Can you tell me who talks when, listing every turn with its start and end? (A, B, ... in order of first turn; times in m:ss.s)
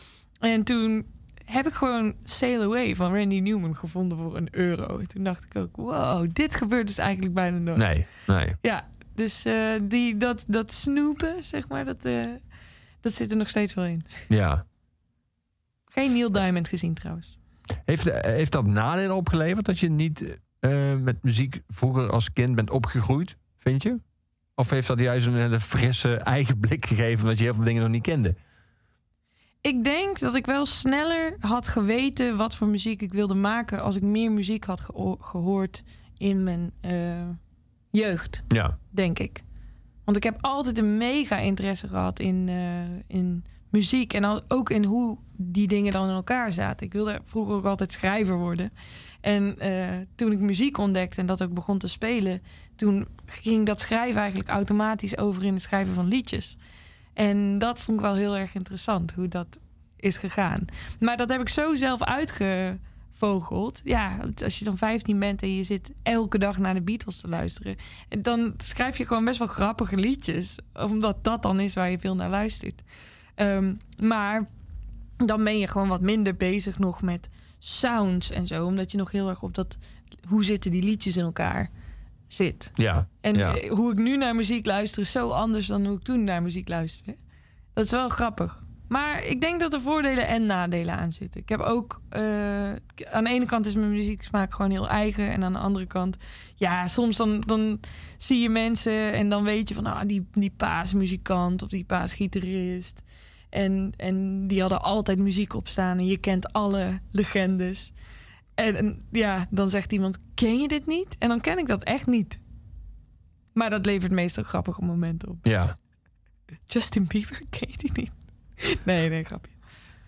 0:00.4-0:08.0 A
0:07.8-0:08.6 B
0:08.6-0:12.4 A
0:13.0-0:14.1 A
0:14.3-0:14.6 B
0:15.9-0:17.3 A
0:17.9-0:24.0 B
0:24.6-0:28.4 B
0:29.6-0:37.4 A
0:37.9-0:39.4 A
0:38.5-0:38.8 B
0:40.1-0:48.7 A
0:49.2-0:56.6 A
0:57.2-1:12.8 A
1:13.4-1:14.5 A
1:15.2-1:21.7 A
1:22.3-1:27.2 A
1:22.8-1:23.6 B
1:27.8-1:47.9 A
1:48.6-1:52.4 A
1:53.6-1:55.5 A
1:55.4-1:55.8 B
1:56.7-1:59.6 A